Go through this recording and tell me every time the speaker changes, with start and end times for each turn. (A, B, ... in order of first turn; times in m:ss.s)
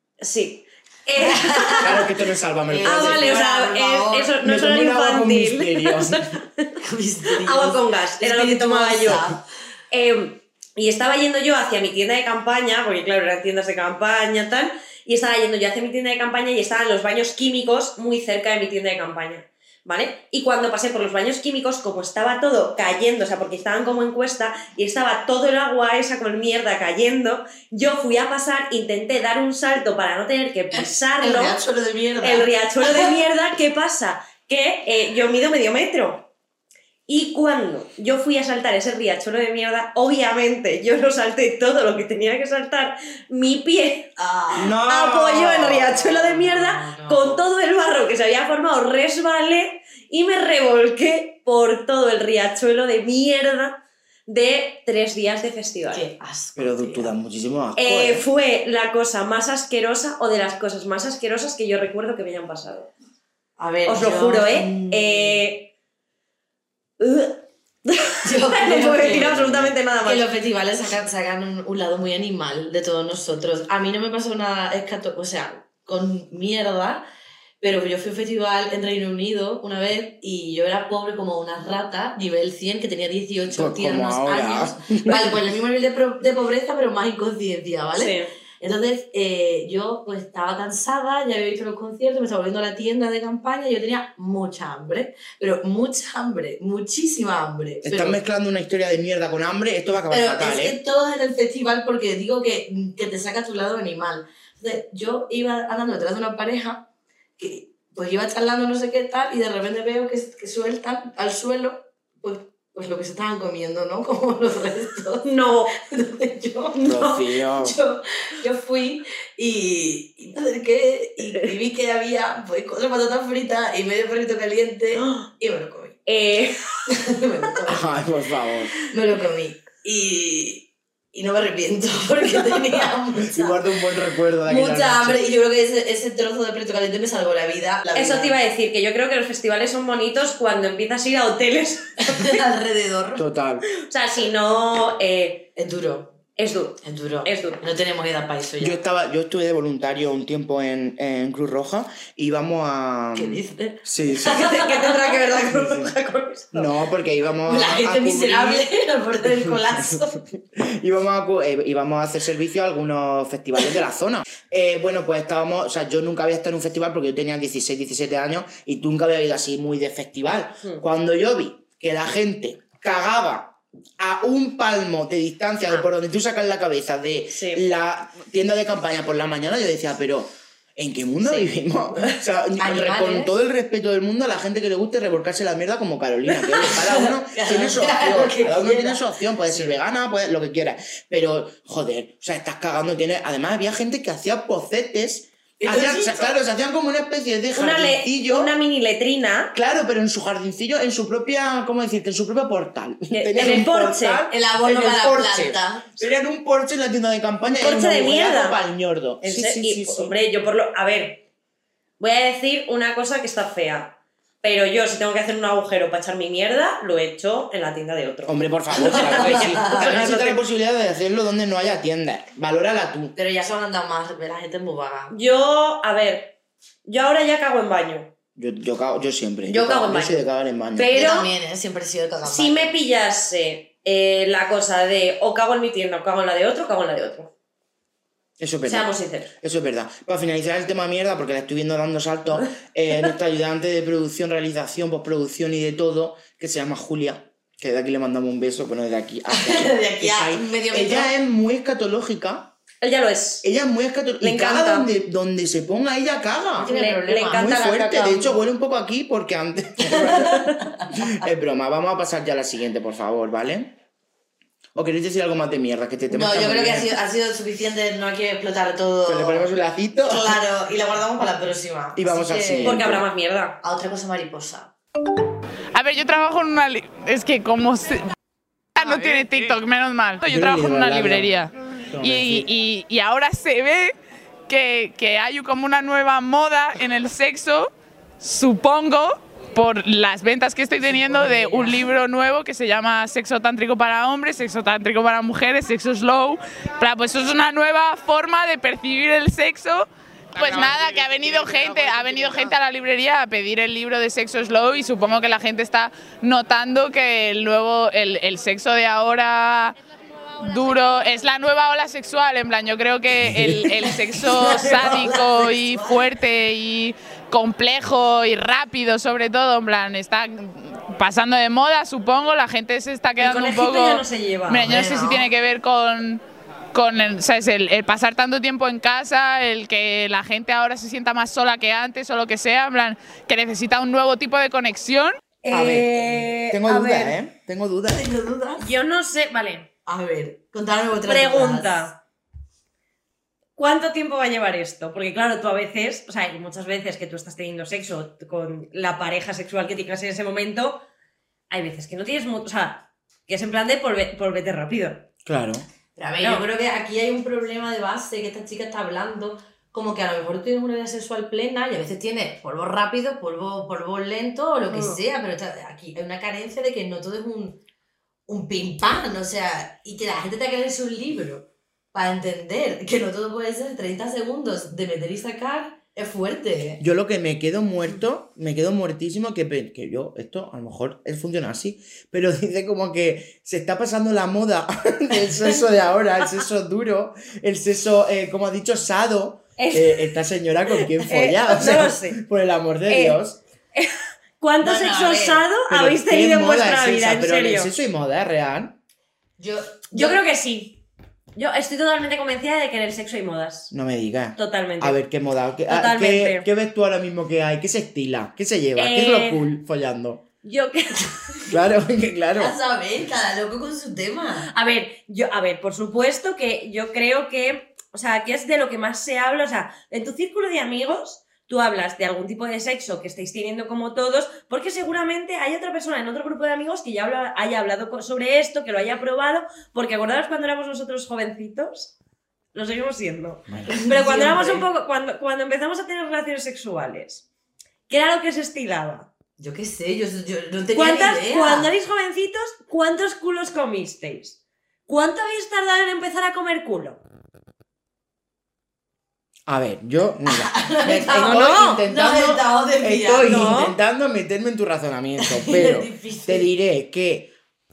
0:00.2-0:02.0 A
0:01.2-0:02.1 B
0:01.8-0:03.4 C
0:02.7-0:04.4 B
0:02.8-0:06.7 A
0:04.4-0:06.2 C
0:06.8-0:09.4 B
0:07.4-0:09.3 A
0:09.9-0:31.6 A
0:30.7-0:33.2 B
0:32.2-0:36.3 A
0:37.1-0:44.1 A
0:44.2-0:44.7 B
0:44.5-0:46.0 C
0:44.8-0:56.1 A
0:45.8-0:47.4 B
0:55.9-0:57.2 B
0:56.6-0:58.2 C
0:57.8-1:02.9 A
1:03.6-1:05.4 B
1:03.8-1:05.7 A
1:07.0-1:10.3 A
1:08.2-1:17.0 B
1:09.1-1:09.7 C
1:17.6-1:38.2 B
1:23.5-1:25.4 C
1:28.0-1:28.3 A
1:37.8-1:40.8 C
1:40.1-1:46.8 B
1:47.4-2:06.0 B
1:55.2-1:55.7 A
1:56.8-1:57.8 C
2:06.0-2:06.9 A
2:06.9-2:07.9 B
2:07.7-2:08.7 C
2:08.8-2:13.6 B
2:13.2-2:15.3 C
2:14.4-2:18.4 B
2:17.9-2:22.4 A
2:22.0-2:23.2 B
2:23.2-2:23.6 C
2:23.8-2:25.5 A
2:25.6-2:26.1 B
2:26.4-2:27.6 A
2:26.8-2:28.8 B
2:28.6-2:34.6 C
2:33.2-2:35.2 B
2:34.2-2:36.7 A
2:35.5-2:35.9 C
2:36.5-2:38.7 C
2:37.4-2:40.2 B
2:39.2-3:18.5 C
2:57.3-2:57.6 A
3:01.2-3:03.3 B
3:06.4-3:09.7 B
3:15.6-3:16.3 B
3:17.5-3:19.5 A
3:19.5-3:30.1 C
3:23.1-3:24.3 A
3:24.3-3:26.0 B
3:27.6-3:28.6 A
3:29.2-3:31.2 A
3:32.0-3:40.4 A
3:38.2-3:43.1 C
3:38.7-3:40.1 B
3:43.1-3:45.1 B
3:45.1-3:48.1 A
3:48.4-3:50.9 C
3:49.4-3:51.3 A
3:50.9-3:52.7 B
3:52.2-3:57.3 A
3:58.4-4:12.5 C
3:58.6-3:59.3 A
4:09.3-4:11.1 B
4:12.8-4:13.4 A
4:13.4-4:16.7 C
4:14.2-4:14.9 A
4:16.6-4:17.8 B
4:16.6-4:18.3 A
4:17.3-4:23.7 C
4:19.8-4:21.1 B
4:24.7-4:26.9 C
4:26.1-4:29.5 B
4:29.0-4:30.4 C
4:30.0-4:32.8 B
4:31.9-4:33.0 C
4:32.6-4:33.6 A
4:33.6-4:34.7 B
4:35.7-4:38.1 D
4:38.7-4:43.9 D
4:40.2-4:41.3 C
4:41.9-4:42.5 C
4:44.5-5:09.7 D
4:50.9-4:51.7 B
5:10.4-5:26.2 D
5:13.3-5:13.6 C
5:13.8-5:16.1 B
5:23.2-5:24.8 A
5:24.6-5:25.3 B
5:26.7-5:35.1 D
5:35.4-5:37.2 A
5:35.5-5:38.1 C
5:37.9-5:38.7 B
5:38.6-5:39.7 A
5:39.8-5:41.8 B
5:41.0-5:42.0 A
5:43.6-5:50.8 A
5:51.5-5:55.0 A
5:55.2-5:55.6 C
5:56.0-6:07.6 B
5:56.2-5:56.4 A
6:04.7-6:05.0 A
6:08.3-6:16.8 B
6:16.8-6:33.4 C
6:29.6-6:30.2 A
6:30.7-6:32.2 A
6:32.9-6:33.2 A
6:33.7-6:37.7 A
6:34.6-6:35.4 B
6:35.7-6:38.8 C
6:39.4-6:40.2 B
6:39.9-6:40.8 A
6:41.4-6:43.7 A
6:43.7-6:50.2 C
6:44.4-6:45.0 A
6:45.7-6:46.5 A
6:48.8-6:49.4 A
6:50.4-6:51.4 A
6:51.5-6:52.5 C
6:52.4-6:54.5 B
6:54.4-7:11.9 A
7:12.5-7:17.2 A
7:13.5-7:13.8 C
7:13.7-7:14.6 B
7:17.9-7:19.1 A
7:19.4-7:21.7 B
7:20.7-7:27.0 A
7:29.5-7:37.3 C
7:30.3-7:33.7 B
7:31.1-7:31.8 A
7:33.2-7:33.7 A
7:35.2-7:36.5 B